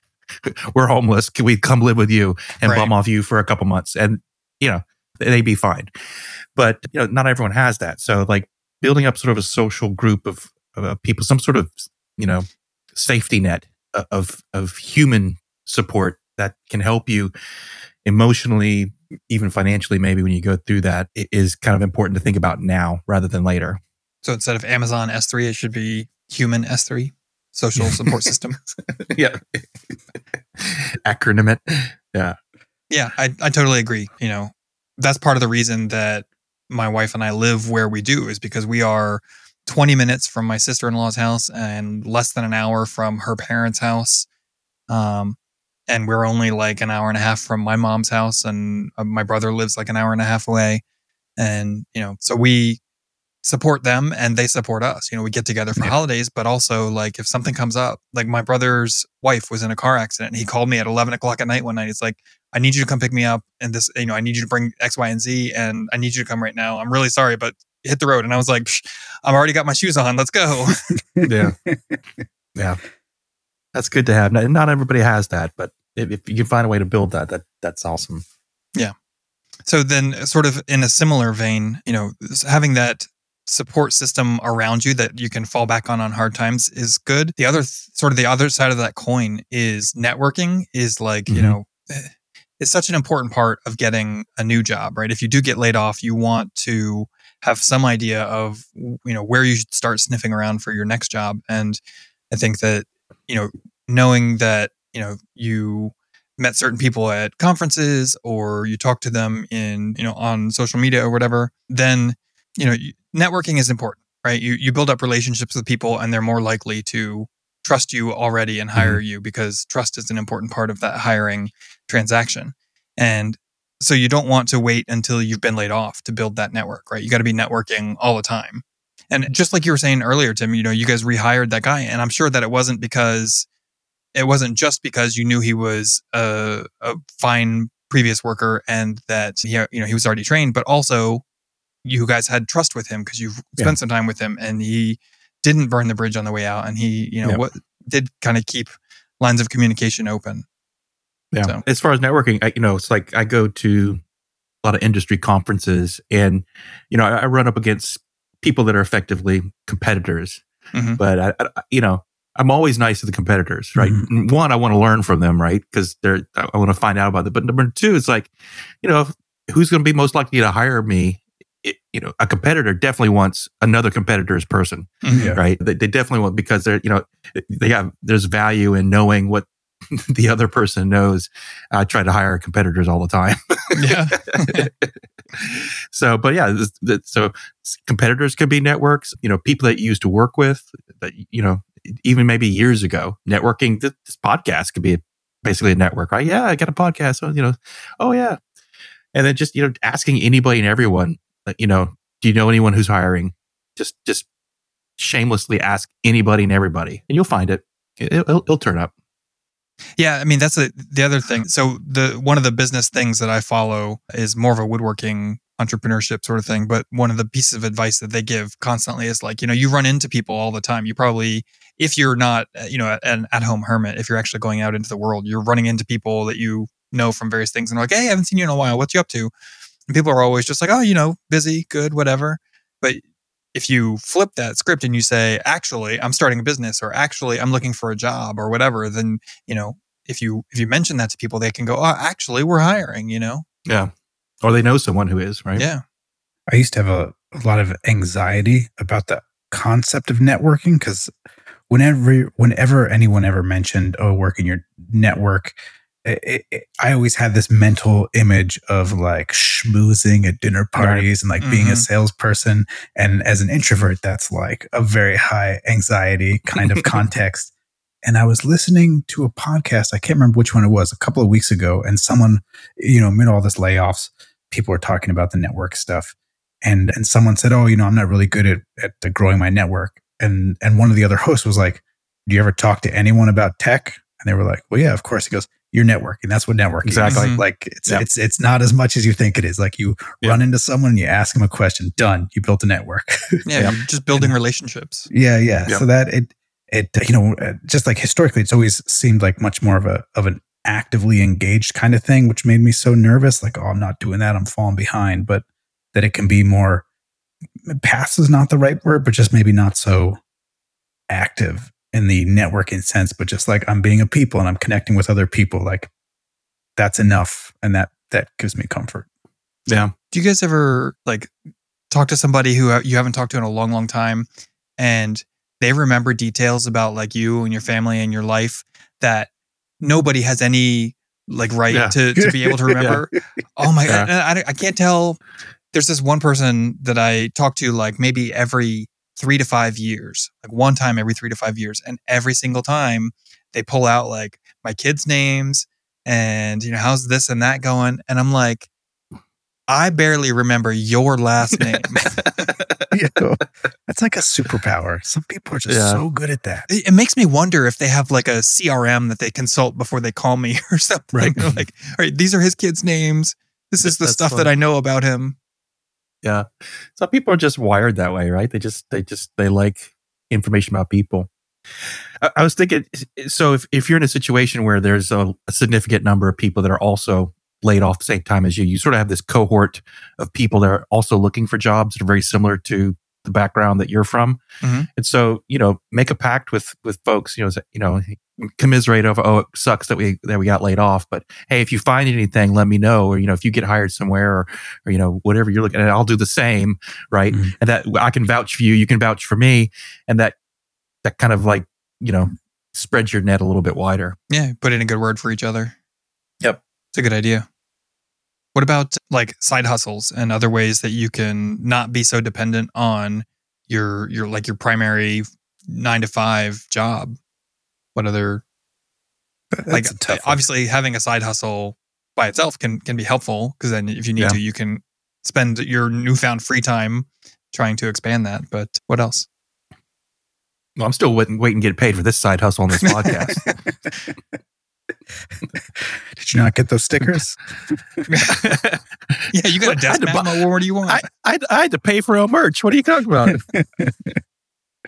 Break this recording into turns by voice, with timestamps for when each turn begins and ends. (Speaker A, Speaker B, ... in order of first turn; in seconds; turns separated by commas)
Speaker A: 0.4-5.9, Speaker B: 2.6-2.9, Speaker A: 6.5-17.3, Speaker A: 18.1-23.8, Speaker B: 24.2-28.6, Speaker A: 28.9-29.6, Speaker A: 30.6-32.4, Speaker B: 32.9-44.2, Speaker B: 44.9-45.4, Speaker B: 45.9-50.8, Speaker B: 51.4-52.8, Speaker B: 53.4-70.9, Speaker C: 71.2-72.2, Speaker A: 71.2-71.5, Speaker A: 72.5-72.8, Speaker A: 73.8-78.2, Speaker B: 79.7-101.8, Speaker A: 91.3-91.6, Speaker B: 102.3-133.5, Speaker B: 134.2-141.2, Speaker B: 141.8-150.5, Speaker A: 151.3-154.0, Speaker A: 154.6-160.4, Speaker B: 160.7-161.0, Speaker A: 161.0-168.3, Speaker C: 163.8-164.1, Speaker A: 168.8-198.4, Speaker B: 175.0-175.3, Speaker C: 175.1-175.4, Speaker B: 183.8-184.7, Speaker A: 199.1-204.3, Speaker A: 205.0-208.9, Speaker B: 210.0-229.3, Speaker B: 229.9-233.0, Speaker B: 233.5-243.4, Speaker A: 243.7-245.7, Speaker B: 245.6-245.8, Speaker C: 246.5-251.1, Speaker C: 251.7-267.5, Speaker A: 260.8-261.1, Speaker B: 261.4-261.9, Speaker A: 266.6-266.8, Speaker C: 268.0-293.5, Speaker A: 286.8-287.3, Speaker B: 287.1-287.4, Speaker B: 293.5-295.1, Speaker C: 295.1-306.9, Speaker C: 307.6-310.2, Speaker C: 311.1-315.9, Speaker C: 316.8-319.1, Speaker A: 319.7-319.9, Speaker B: 320.1-321.3, Speaker B: 321.9-329.3, Speaker B: 329.8-335.2, Speaker C: 332.2-332.8, Speaker B: 335.7-348.7, Speaker B: 349.7-352.2, Speaker A: 352.2-352.9, Speaker C: 352.9-356.7, Speaker A: 355.7-356.0, Speaker B: 356.7-365.4, Speaker A: 361.1-361.4, Speaker A: 363.9-364.5, Speaker A: 366.2-371.3, Speaker A: 372.2-384.4, Speaker B: 384.6-384.9, Speaker A: 384.9-400.4, Speaker A: 401.0-404.2, Speaker B: 404.3-405.8, Speaker B: 406.9-407.5, Speaker B: 408.6-417.2, Speaker B: 417.9-418.4, Speaker C: 419.5-420.4, Speaker B: 419.7-429.3, Speaker A: 430.8-433.4, Speaker C: 435.8-437.4, Speaker B: 438.1-438.6, Speaker A: 438.3-443.4, Speaker B: 439.3-441.0, Speaker C: 443.5-444.2